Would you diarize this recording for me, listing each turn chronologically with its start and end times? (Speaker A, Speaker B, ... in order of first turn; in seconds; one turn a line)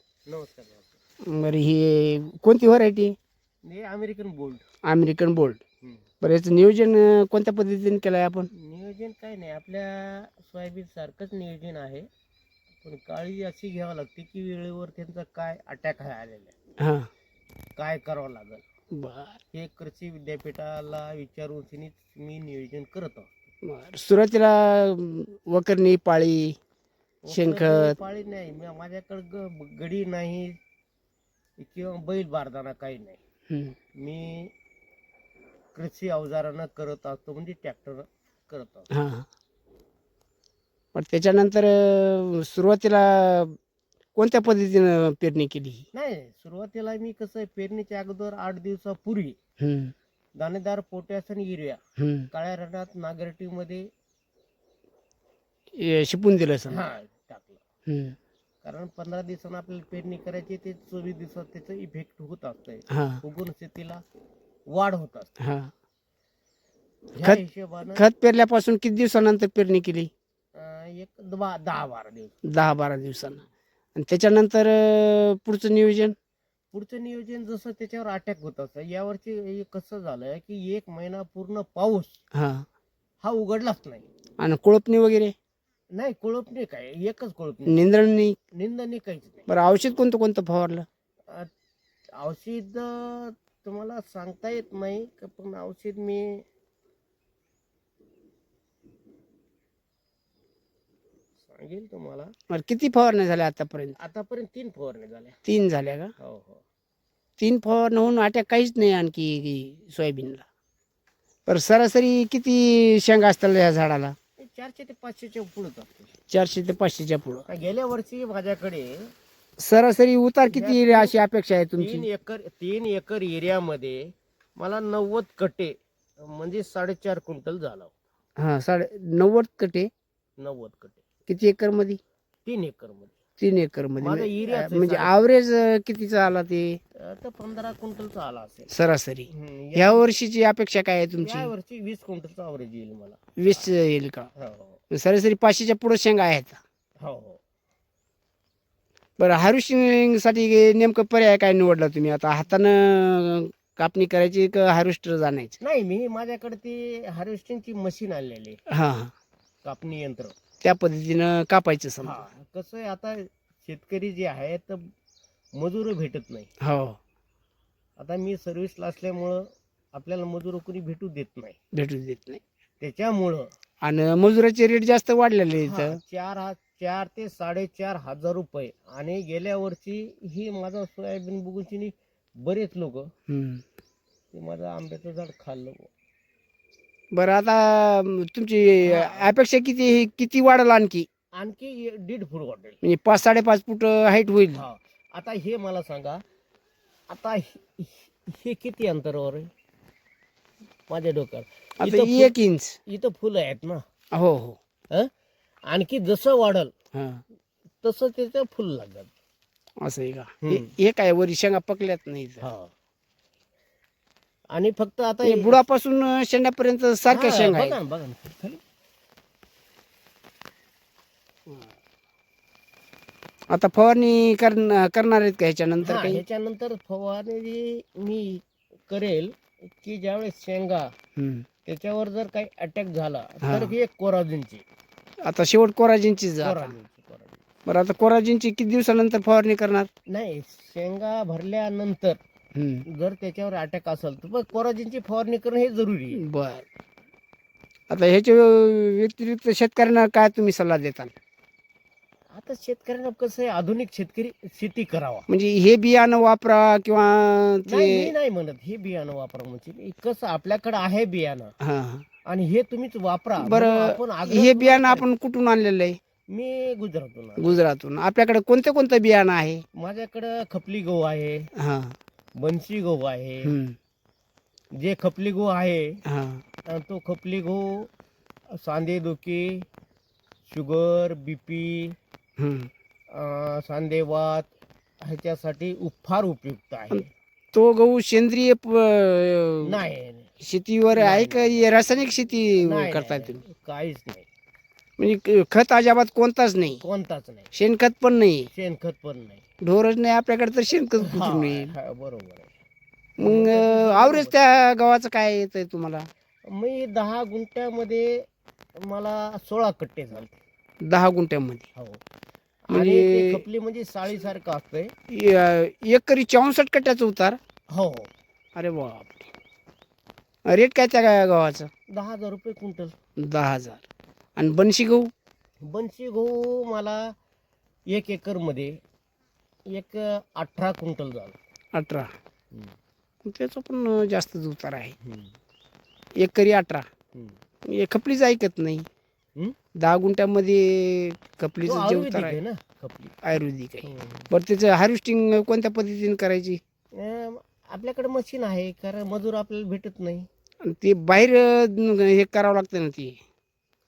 Speaker A: 0.3-1.0
Speaker B: 1.2-3.1
Speaker A: 3.6-4.6
Speaker B: 4.8-5.6
Speaker B: 6.2-8.5
Speaker A: 8.5-12.1
Speaker A: 12.8-16.5
Speaker B: 16.8-17.1
Speaker A: 17.8-18.6
Speaker B: 18.9-19.4
Speaker A: 19.5-23.3
Speaker B: 23.6-26.6
Speaker A: 27.2-30.6
Speaker B: 27.3-28.0
Speaker A: 31.6-33.2
Speaker B: 33.5-33.8
Speaker A: 34.0-34.5
Speaker A: 35.7-38.9
Speaker B: 38.9-39.3
Speaker B: 40.9-43.5
Speaker B: 44.1-45.8
Speaker A: 45.9-49.4
Speaker B: 49.6-49.9
Speaker A: 50.4-51.8
Speaker B: 52.0-52.3
Speaker A: 52.3-53.9
Speaker B: 55.8-56.8
Speaker A: 56.7-57.6
Speaker B: 57.9-58.1
Speaker A: 58.6-64.0
Speaker B: 62.9-63.2
Speaker A: 64.7-65.3
Speaker B: 65.4-65.7
Speaker A: 67.1-68.0
Speaker B: 67.9-70.1
Speaker A: 70.5-72.4
Speaker B: 72.4-73.4
Speaker B: 73.9-76.1
Speaker A: 76.7-82.2
Speaker B: 82.3-82.6
Speaker A: 83.2-84.0
Speaker B: 84.4-85.3
Speaker A: 85.9-87.8
Speaker B: 87.7-88.4
Speaker A: 88.5-89.5
Speaker B: 89.5-90.8
Speaker A: 92.2-96.4
Speaker A: 101.5-102.3
Speaker B: 102.5-103.9
Speaker A: 104.0-105.4
Speaker B: 105.5-106.1
Speaker A: 106.2-106.6
Speaker B: 107.4-110.4
Speaker B: 111.5-114.2
Speaker A: 114.4-116.1
Speaker B: 116.3-117.5
Speaker A: 117.5-119.1
Speaker B: 119.6-122.0
Speaker A: 120.5-121.2
Speaker A: 121.8-127.9
Speaker B: 128.4-129.9
Speaker A: 130.4-131.0
Speaker B: 131.3-132.0
Speaker A: 132.4-133.1
Speaker B: 133.4-136.8
Speaker A: 134.0-135.2
Speaker A: 136.9-138.7
Speaker B: 138.7-141.5
Speaker A: 139.3-140.1
Speaker A: 141.2-143.7
Speaker B: 143.4-144.3
Speaker A: 144.3-144.8
Speaker B: 144.9-146.6
Speaker A: 147.0-147.4
Speaker B: 149.2-155.6
Speaker A: 155.6-158.6
Speaker B: 158.7-159.1
Speaker A: 159.6-160.3
Speaker B: 160.6-162.2
Speaker A: 162.0-164.9
Speaker A: 165.5-166.5
Speaker B: 166.6-167.0
Speaker A: 168.0-171.6
Speaker B: 171.7-172.4
Speaker A: 172.8-173.5
Speaker B: 173.8-176.0
Speaker A: 175.6-183.1
Speaker B: 183.3-183.6
Speaker A: 184.3-185.9
Speaker B: 187.1-191.1
Speaker A: 188.8-189.3
Speaker A: 191.3-192.8
Speaker B: 192.8-194.6
Speaker A: 194.5-196.2
Speaker A: 197.1-199.5
Speaker A: 200.9-202.3
Speaker B: 201.8-202.8
Speaker A: 202.9-203.8
Speaker B: 204.1-204.6
Speaker A: 205.7-206.7
Speaker B: 206.9-207.2
Speaker A: 207.8-209.1
Speaker B: 209.8-212.4
Speaker A: 210.4-210.7
Speaker A: 212.4-212.7
Speaker A: 214.5-215.6
Speaker B: 215.2-217.8
Speaker A: 217.1-218.6
Speaker B: 223.5-226.2
Speaker A: 225.8-230.9
Speaker B: 231.2-231.4
Speaker A: 231.7-234.6
Speaker B: 233.4-233.7
Speaker B: 235.2-236.7
Speaker A: 236.4-237.4
Speaker B: 237.7-239.9
Speaker A: 240.1-242.2
Speaker B: 242.5-242.8
Speaker A: 242.9-246.2
Speaker B: 246.2-246.6
Speaker B: 247.9-251.1
Speaker A: 252.3-255.3
Speaker B: 255.3-258.1
Speaker A: 257.7-261.5
Speaker B: 261.6-262.0
Speaker A: 262.2-265.1
Speaker B: 263.4-266.0
Speaker A: 266.3-267.6
Speaker B: 267.4-269.6
Speaker A: 269.7-271.5
Speaker B: 271.6-271.9
Speaker A: 272.4-273.5
Speaker B: 273.4-273.8
Speaker A: 274.8-276.0
Speaker B: 276.1-276.4
Speaker A: 276.7-277.9
Speaker A: 278.5-279.6
Speaker A: 280.5-282.0
Speaker B: 282.4-282.7
Speaker A: 283.1-284.5
Speaker A: 285.0-287.1
Speaker B: 286.9-289.8
Speaker A: 289.6-290.3
Speaker B: 290.4-293.4
Speaker A: 290.9-291.7
Speaker A: 292.6-294.2
Speaker B: 295.0-296.8
Speaker A: 296.7-297.5
Speaker B: 297.5-298.5
Speaker A: 298.5-299.4
Speaker B: 299.6-301.7
Speaker A: 301.0-302.5
Speaker A: 303.2-304.4
Speaker B: 303.2-306.1
Speaker A: 306.5-310.4
Speaker B: 310.8-311.6
Speaker A: 311.7-312.0
Speaker A: 312.7-314.9
Speaker B: 312.7-313.4
Speaker B: 315.1-317.4
Speaker A: 317.7-318.1
Speaker B: 318.5-319.3
Speaker B: 320.4-321.7
Speaker A: 321.9-322.9
Speaker B: 323.2-323.8
Speaker B: 324.4-325.1
Speaker A: 325.6-327.1
Speaker A: 327.9-328.8
Speaker A: 329.7-331.3
Speaker B: 331.7-332.1
Speaker B: 333.2-334.9
Speaker A: 335.0-335.3
Speaker B: 336.2-336.8
Speaker B: 337.6-338.9
Speaker B: 339.8-342.4
Speaker A: 341.6-344.3
Speaker B: 343.2-346.6
Speaker A: 346.9-350.3
Speaker B: 350.6-353.2